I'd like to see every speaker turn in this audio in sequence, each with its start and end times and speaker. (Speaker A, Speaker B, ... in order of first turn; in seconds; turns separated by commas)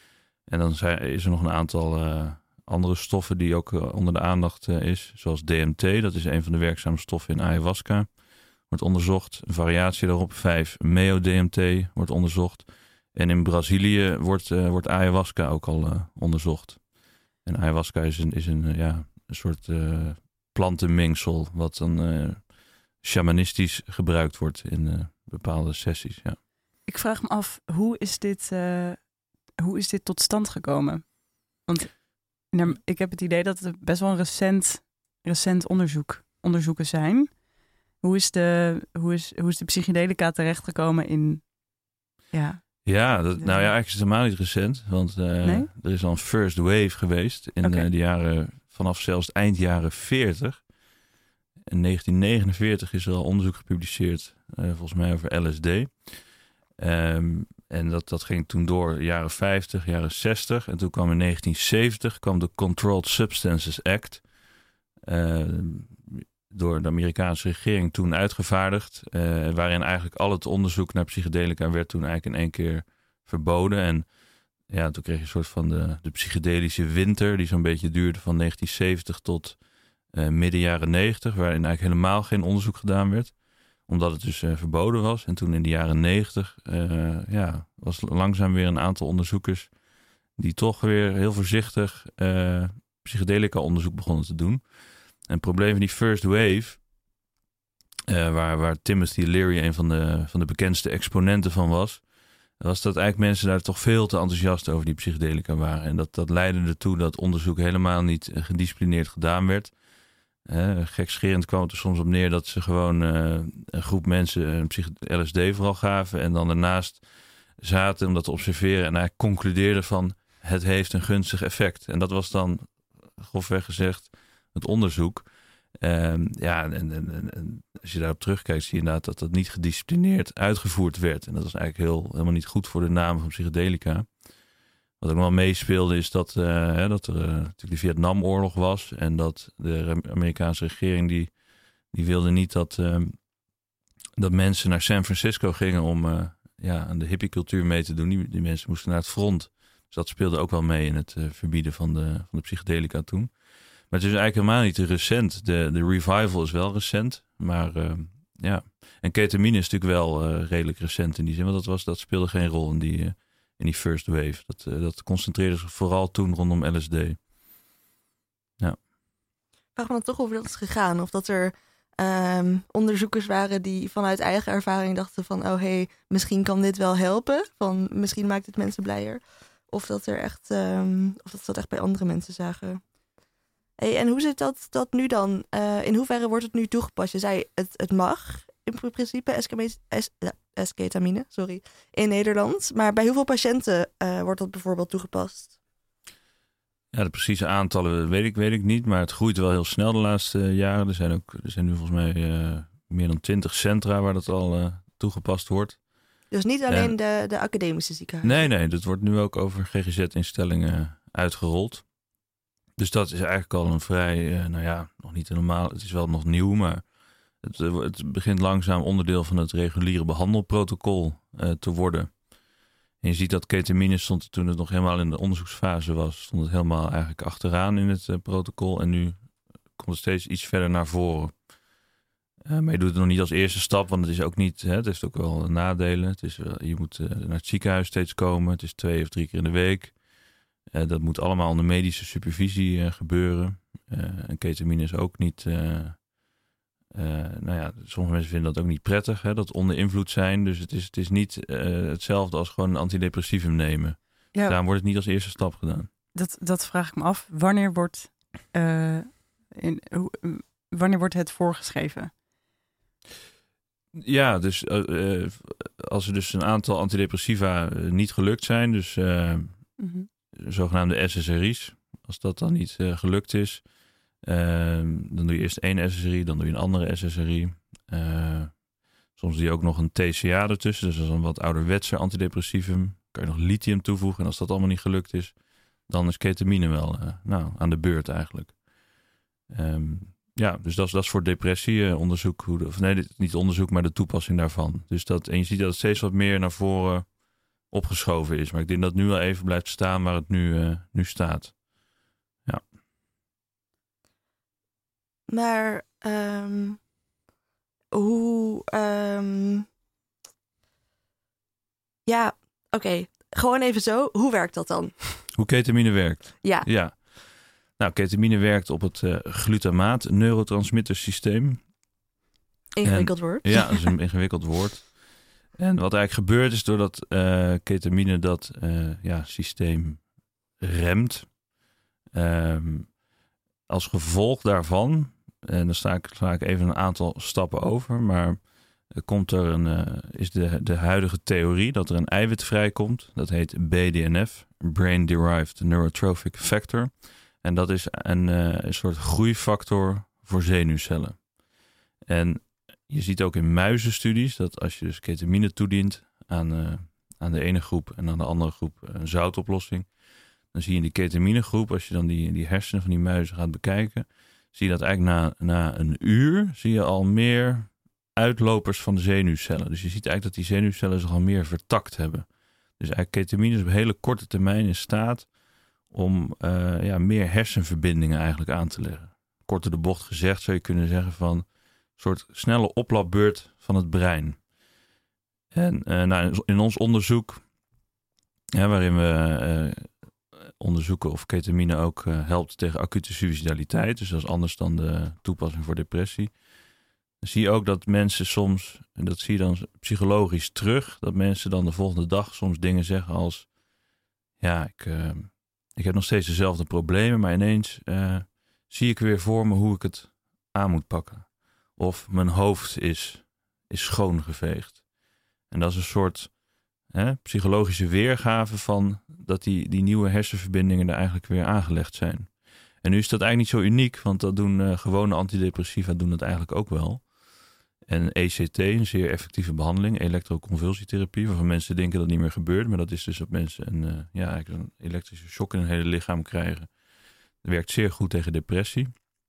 Speaker A: 0.4-26.4, Speaker B: 26.9-37.5, Speaker B: 38.0-43.7, Speaker A: 42.8-50.7, Speaker B: 45.4-45.7, Speaker B: 47.6-47.9, Speaker A: 51.7-64.3, Speaker A: 65.0-74.1, Speaker A: 74.7-79.6, Speaker A: 80.1-89.7, Speaker A: 90.4-96.8, Speaker A: 98.1-102.0, Speaker A: 102.6-109.7, Speaker A: 110.4-134.4, Speaker A: 135.0-143.3, Speaker A: 144.2-167.2, Speaker C: 169.7-182.8, Speaker C: 183.8-195.5, Speaker A: 196.9-205.8, Speaker C: 206.3-208.5, Speaker A: 206.7-206.9, Speaker A: 208.2-211.9, Speaker A: 212.8-222.5, Speaker A: 223.0-231.5, Speaker A: 232.4-240.0, Speaker A: 240.7-246.3, Speaker A: 246.9-255.9, Speaker B: 256.1-262.1, Speaker A: 263.9-269.8, Speaker B: 269.8-270.1, Speaker A: 270.4-273.7, Speaker A: 274.2-301.9, Speaker C: 305.3-306.8, Speaker C: 307.9-309.7, Speaker C: 312.1-315.3, Speaker A: 315.3-321.7, Speaker C: 316.4-316.7, Speaker C: 322.7-323.9, Speaker A: 322.8-331.4, Speaker A: 332.1-333.0, Speaker A: 333.7-351.4, Speaker A: 352.0-384.5, Speaker A: 385.5-387.4, Speaker A: 388.5-396.4, Speaker A: 397.2-403.5, Speaker A: 404.4-436.7, Speaker A: 437.4-438.9